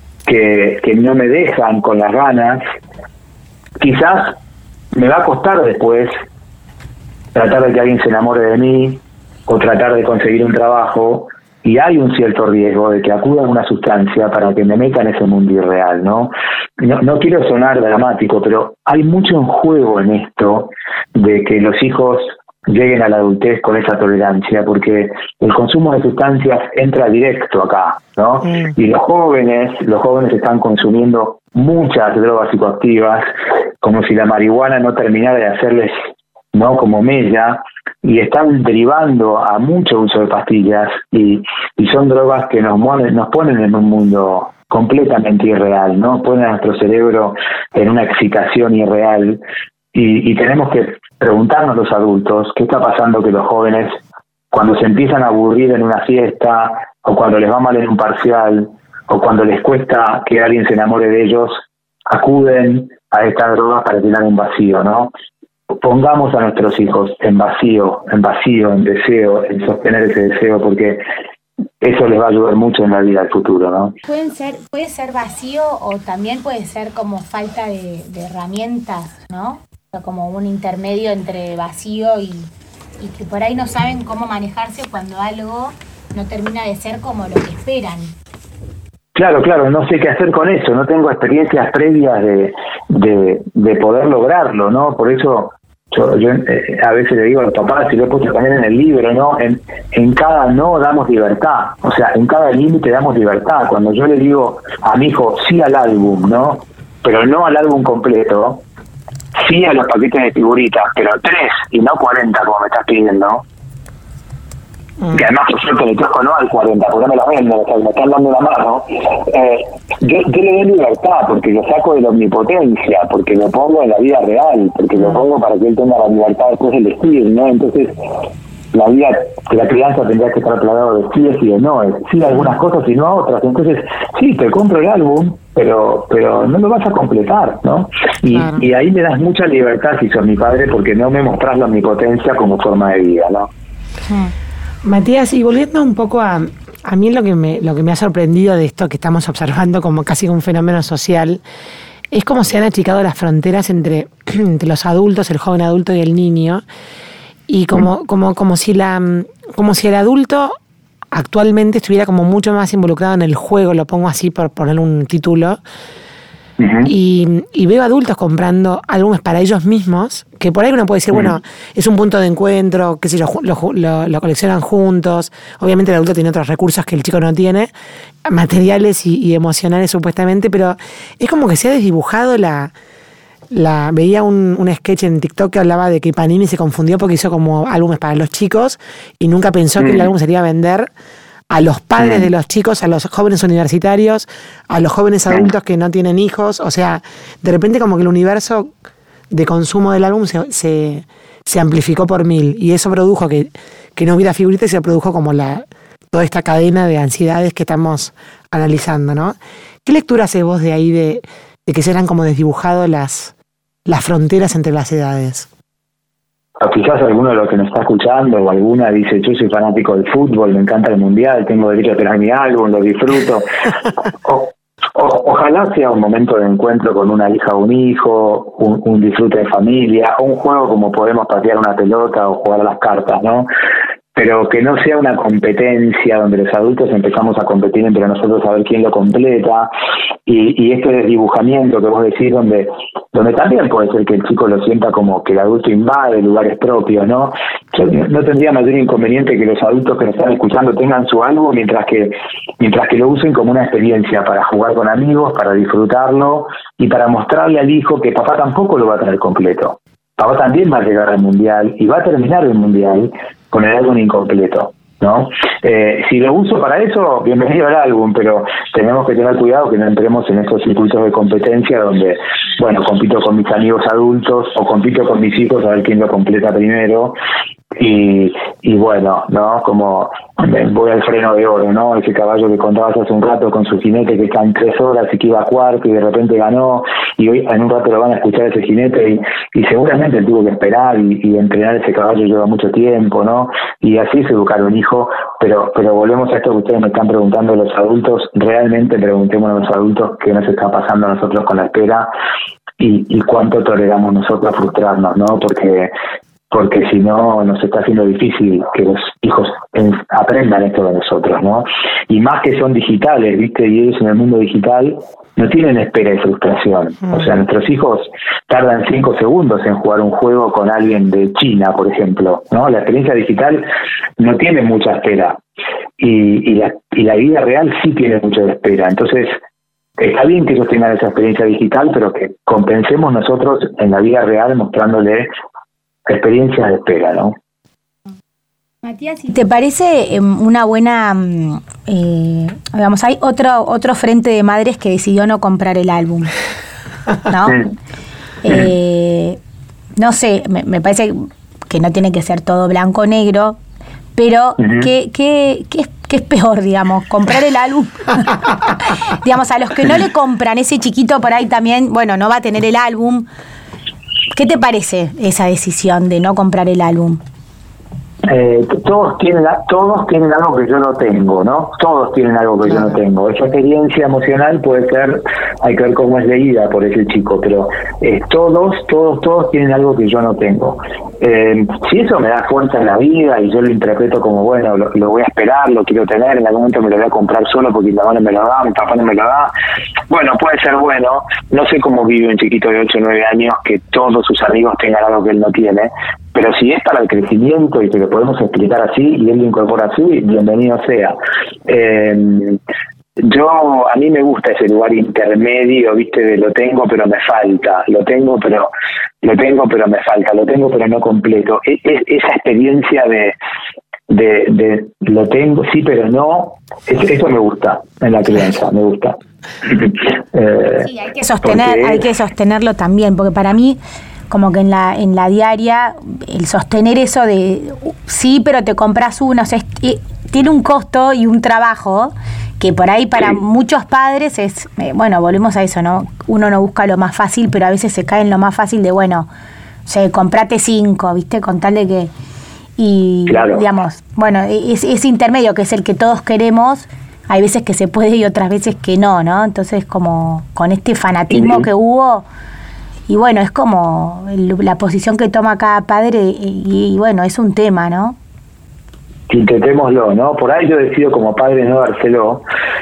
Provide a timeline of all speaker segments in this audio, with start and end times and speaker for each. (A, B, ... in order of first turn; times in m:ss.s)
0:00.2-0:02.6 A
0:03.8-0:04.4 A
0:04.9-0:06.1 A
0:07.3-0:33.2 A
0:33.8-0:35.9 A
0:36.5-0:49.4 A
0:49.9-0:54.0 A
0:54.5-1:05.1 A
1:05.8-1:11.0 A
1:11.8-1:14.0 A
1:14.1-1:22.5 B
1:23.0-1:28.1 B
1:29.1-1:48.6 A
1:49.4-1:53.4 A
1:55.1-2:07.9 A
2:08.7-2:23.5 A
2:18.3-2:18.6 C
2:24.8-2:31.4 C
2:32.1-2:36.6 C
2:37.5-2:40.6 C
2:41.1-2:45.6 C
2:46.6-2:46.9 A
2:46.8-2:57.7 C
2:58.2-3:02.7 C
3:03.5-3:10.9 C
3:09.8-3:10.1 A
3:11.5-3:18.7 C
3:12.0-3:12.2 A
3:19.3-3:33.3 C
3:33.8-3:35.5 C
3:36.6-3:43.4 A
3:44.2-3:53.5 A
3:54.1-3:59.7 A
4:00.2-4:37.2 A
4:37.8-5:02.1 A
5:02.8-5:05.9 A
5:06.5-5:25.4 A
5:26.0-5:29.4 A
5:30.0-5:35.3 A
5:36.1-5:37.3 A
5:38.8-5:46.3 B
5:47.3-5:47.6 B
5:47.4-5:47.7 A
5:48.4-5:49.4 B
5:50.0-5:53.6 B
5:54.2-6:03.3 B
5:54.6-5:54.9 A
6:04.3-6:07.2 B
6:08.3-6:29.5 A
6:30.1-6:41.1 A
6:41.7-6:42.6 A
6:43.2-6:48.7 A
6:49.2-6:53.4 A
6:54.1-7:00.9 A
7:00.8-7:03.8 B
7:01.4-7:02.0 A
7:04.3-7:19.3 B
7:19.8-7:22.1 B
7:22.8-7:32.3 B
7:23.3-7:23.6 A
7:31.3-7:31.7 A
7:33.1-7:38.2 B
7:39.3-7:42.4 A